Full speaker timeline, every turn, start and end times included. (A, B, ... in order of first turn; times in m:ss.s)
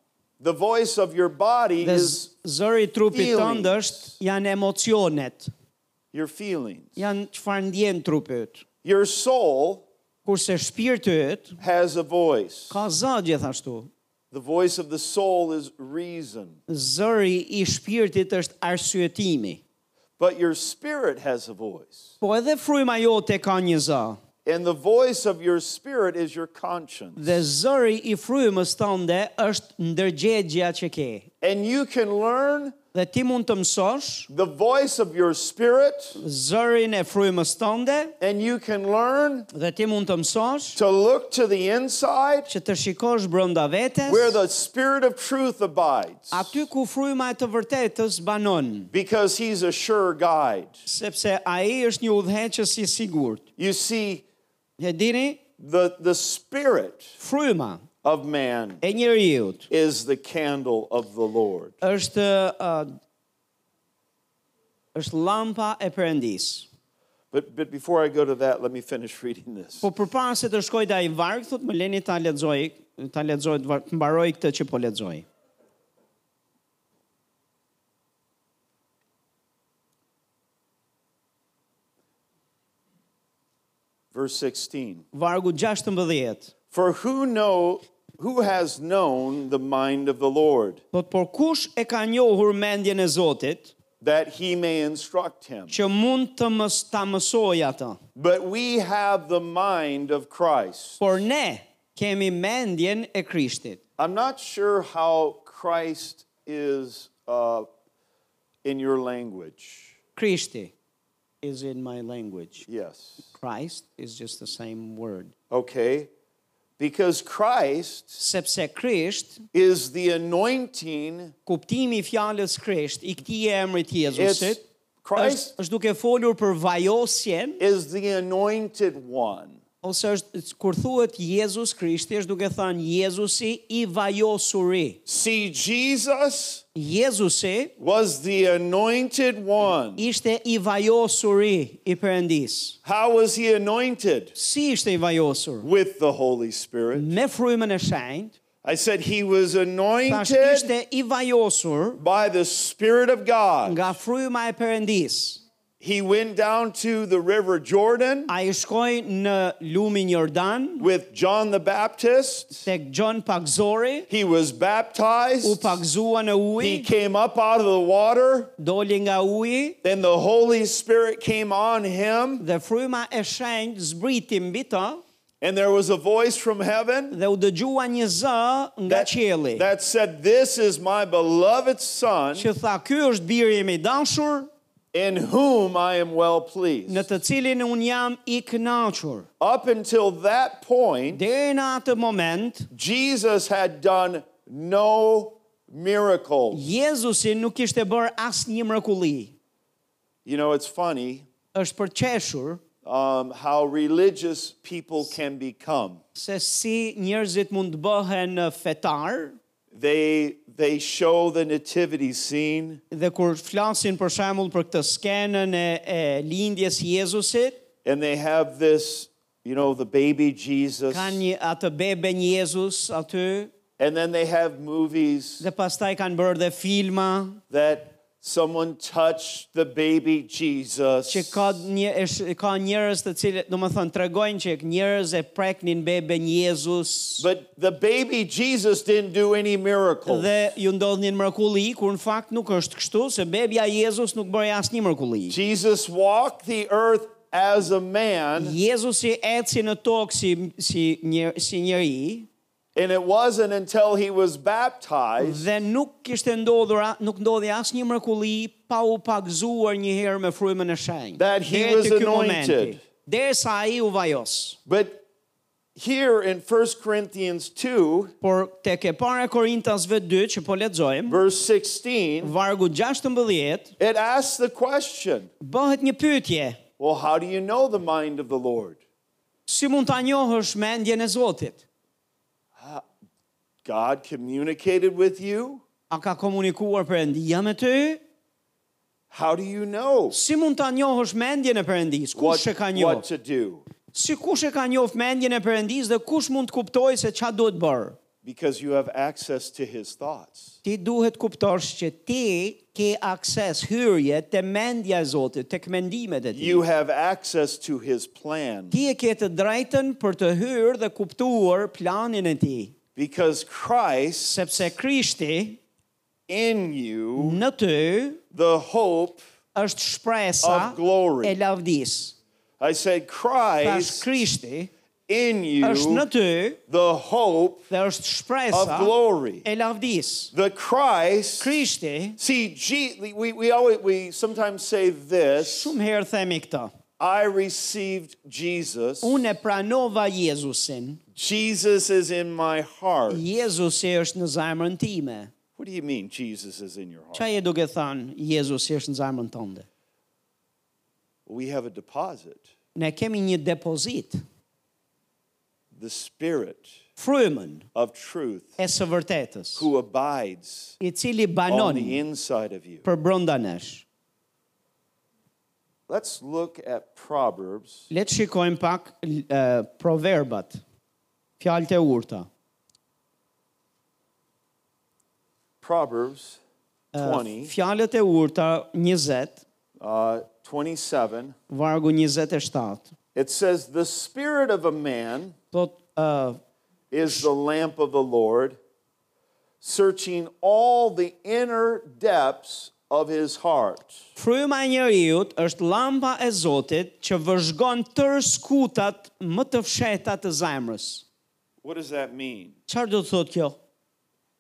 0:00.4-0:02.3 A
0:01.8-0:05.5 B
0:03.1-0:03.9 A
0:06.1-0:07.0 A
0:07.0-0:08.6 B
0:08.8-0:09.8 A
0:10.2-0:11.6 B
0:11.6-0:12.8 A
0:12.7-0:13.9 B
0:14.3-0:16.6 A
0:16.7-0:19.6 B
0:20.2-0:22.1 A
0:22.2-0:24.2 B
0:24.4-0:27.4 A
0:27.2-0:31.3 B
0:31.4-0:32.8 A
0:32.9-0:34.3 B
0:34.3-0:36.2 A
0:36.2-0:38.1 B
0:38.2-0:39.5 A
0:39.5-0:40.8 B
0:40.7-0:42.5 A
0:42.5-0:44.4 B
0:44.0-0:46.6 A
0:46.3-0:48.9 B
0:48.9-0:50.7 A
0:50.8-0:53.4 B
0:53.6-0:54.2 A
0:54.8-0:55.4 B
0:55.6-0:57.2 A
0:57.2-0:57.9 B
0:58.0-0:58.8 A
0:58.8-0:59.7 B
0:59.7-1:01.8 A
1:01.8-1:02.9 B
1:04.9-1:06.7 B
1:07.3-1:09.9 A
1:09.8-1:15.2 B
1:24.1-1:25.0 A
1:25.1-1:26.5 B
1:26.7-1:30.8 A
1:30.9-1:33.7 B
1:34.0-1:35.8 A
1:35.7-1:38.0 B
1:38.1-1:41.0 A
1:41.0-1:43.8 B
1:44.0-1:47.6 A
1:48.6-1:50.0 A
1:50.2-1:50.7 B
1:51.4-1:52.7 B
1:52.7-1:53.2 A
1:53.3-1:55.3 B
1:55.5-1:56.1 A
1:56.8-1:58.2 A
1:58.2-1:59.4 B
1:59.5-2:01.3 A
2:01.4-2:04.6 B
2:04.2-2:05.5 A
2:05.2-2:07.6 B
2:07.6-2:09.6 A
2:09.8-2:15.0 B
2:15.0-2:16.6 A
2:16.7-2:17.7 B
2:17.8-2:20.0 A
2:20.0-2:22.8 B
2:22.8-2:24.3 A
2:24.3-2:25.7 B
2:25.6-2:27.1 A
2:26.9-2:28.3 B
2:28.6-2:30.7 A
2:30.1-2:32.0 B
2:32.0-2:33.9 A
2:33.6-2:35.4 B
2:35.8-2:38.3 A
2:38.3-2:40.9 B
2:40.8-2:42.7 A
2:42.6-2:44.1 B
2:44.1-2:45.8 A
2:45.4-2:46.9 B
2:46.6-2:48.5 A
2:48.6-2:49.8 B
2:49.8-2:52.4 A
2:52.4-2:55.0 B
2:55.4-2:57.2 A
2:57.1-2:59.7 B
2:58.9-3:02.5 A
3:02.3-3:04.5 B
3:04.9-3:07.1 A
3:06.9-3:09.3 B
3:09.4-3:11.2 A
3:11.1-3:12.7 B
3:12.7-3:16.6 A
3:16.5-3:19.3 B
3:20.2-3:21.2 A
3:21.5-3:22.6 B
3:22.8-3:26.0 A
3:26.1-3:29.4 B
3:29.7-3:32.8 A
3:32.9-3:37.6 B
3:37.8-3:41.2 A
3:40.9-3:43.5 B
3:43.8-3:45.5 A
3:45.4-3:47.4 B
3:47.5-3:51.6 A
3:51.1-3:57.3 B
3:57.2-4:00.3 A
4:00.1-4:05.4 B
4:05.3-4:08.6 A
4:08.3-4:12.3 B
4:12.7-4:15.5 A
4:15.2-4:24.6 B
4:21.2-4:22.8 A
4:24.7-4:25.0 A
4:25.7-4:28.1 A
4:28.2-4:31.2 B
4:31.1-4:32.3 A
4:32.2-4:33.7 B
4:33.8-4:35.3 A
4:35.4-4:36.6 B
4:36.8-4:38.8 A
4:39.5-4:41.6 B
4:42.6-4:42.8 A
4:43.6-4:45.6 A
4:45.9-4:48.0 B
4:49.1-4:50.2 A
4:50.1-4:53.0 B
4:52.2-4:53.6 A
4:53.9-4:58.0 B
4:58.2-5:00.6 A
5:00.6-5:06.6 B
5:06.3-5:08.7 A
5:08.7-5:12.8 B
5:13.0-5:14.6 A
5:14.2-5:15.6 B
5:16.3-5:17.4 A
5:17.2-5:18.2 B
5:18.3-5:19.2 A
5:19.5-5:22.1 B
5:20.4-5:21.4 A
5:22.6-5:24.1 A
5:23.6-5:24.7 B
5:25.1-5:26.1 A
5:25.6-5:26.6 B
5:26.7-5:27.7 A
5:27.7-5:30.3 B
5:28.5-5:29.4 A
5:30.3-5:31.6 A
5:31.4-5:32.2 B
5:32.2-5:35.7 A
5:35.4-5:36.7 B
5:37.0-5:39.2 A
5:39.0-5:41.0 B
5:41.1-5:43.2 A
5:43.1-5:45.3 B
5:45.6-5:47.2 A
5:47.1-5:49.6 B
5:51.2-5:52.4 A
5:52.7-5:54.2 B
5:55.7-5:56.8 A
5:57.0-5:57.7 B
5:57.7-5:58.6 A
5:58.6-5:59.7 B
5:59.6-6:00.8 A
6:00.8-6:02.0 B
6:01.5-6:02.8 A
6:02.8-6:03.8 B
6:05.9-6:07.9 A
6:07.9-6:10.6 B
6:11.4-6:12.3 B
6:15.6-6:16.4 A
6:16.9-6:19.4 B
6:16.9-6:17.5 A
6:19.8-6:21.3 A
6:21.5-6:22.9 B
6:23.1-6:25.4 A
6:25.5-6:26.4 B
6:26.9-6:28.6 A
6:29.6-6:34.0 A
6:34.2-6:41.0 B
6:41.6-6:42.6 A
6:42.7-6:43.6 B